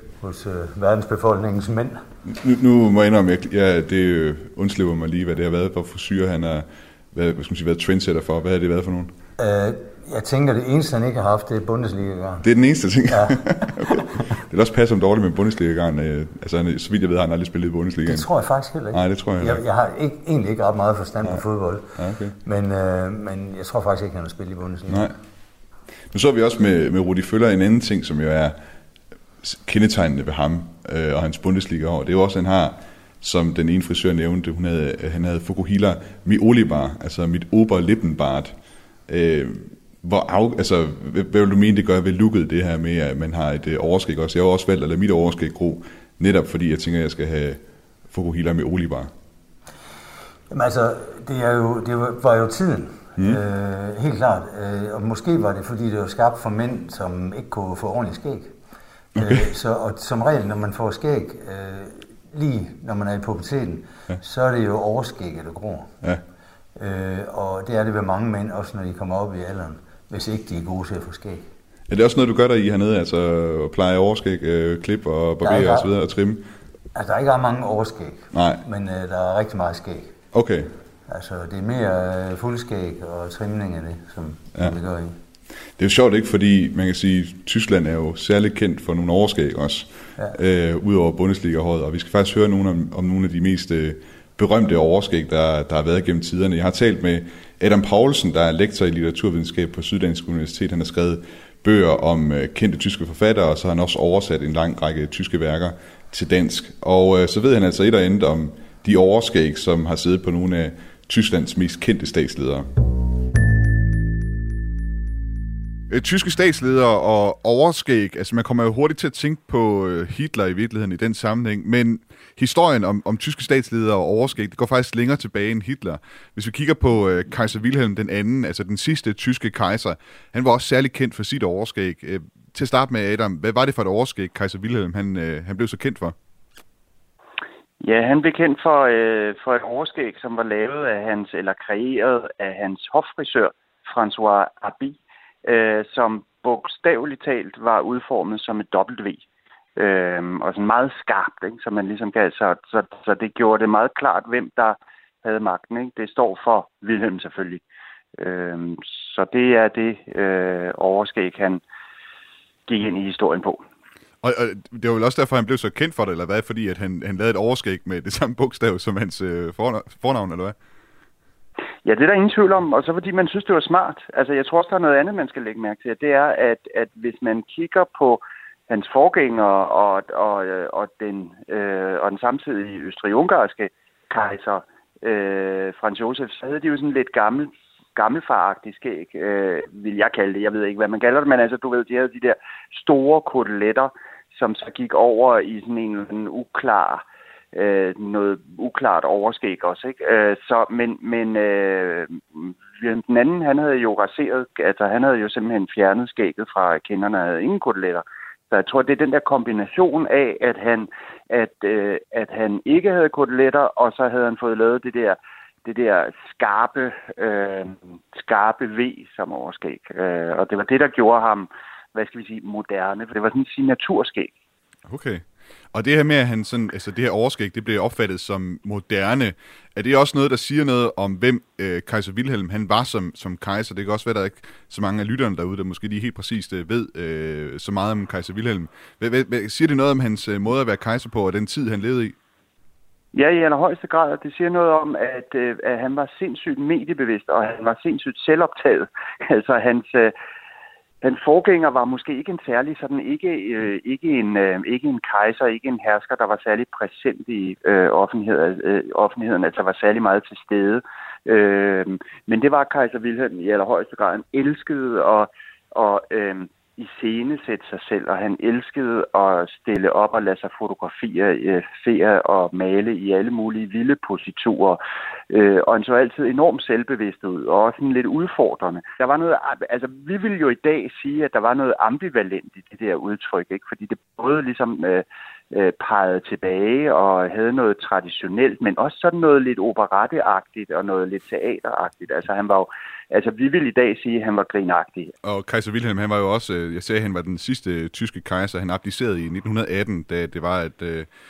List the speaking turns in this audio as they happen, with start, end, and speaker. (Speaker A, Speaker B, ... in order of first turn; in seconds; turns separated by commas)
Speaker A: 0.2-2.0, Speaker B: 2.2-9.1, Speaker A: 9.4-12.5, Speaker B: 12.4-18.3, Speaker A: 13.1-14.1, Speaker A: 18.1-21.9, Speaker B: 18.9-19.6, Speaker B: 22.0-22.4, Speaker A: 22.4-25.1, Speaker B: 24.9-25.1, Speaker B: 26.1-28.6, Speaker B: 29.4-38.6, Speaker B: 39.1-49.1, Speaker A: 50.5-58.5, Speaker B: 59.2-59.4, Speaker A: 59.2-66.0, Speaker A: 66.8-71.5, Speaker B: 71.9-76.5, Speaker A: 75.4-75.9, Speaker A: 77.0-80.2, Speaker B: 78.3-78.6, Speaker B: 80.3-80.7, Speaker A: 81.1-85.2, Speaker B: 85.8-112.7, Speaker B: 115.9-136.2, Speaker C: 137.8-149.2, Speaker C: 149.8-157.6, Speaker C: 158.2-161.6, Speaker C: 162.7-163.6, Speaker B: 164.2-170.6, Speaker C: 171.8-224.3, Speaker B: 224.9-242.2, Speaker C: 243.1-250.2, Speaker C: 251.0-295.1, Speaker B: 295.2-301.1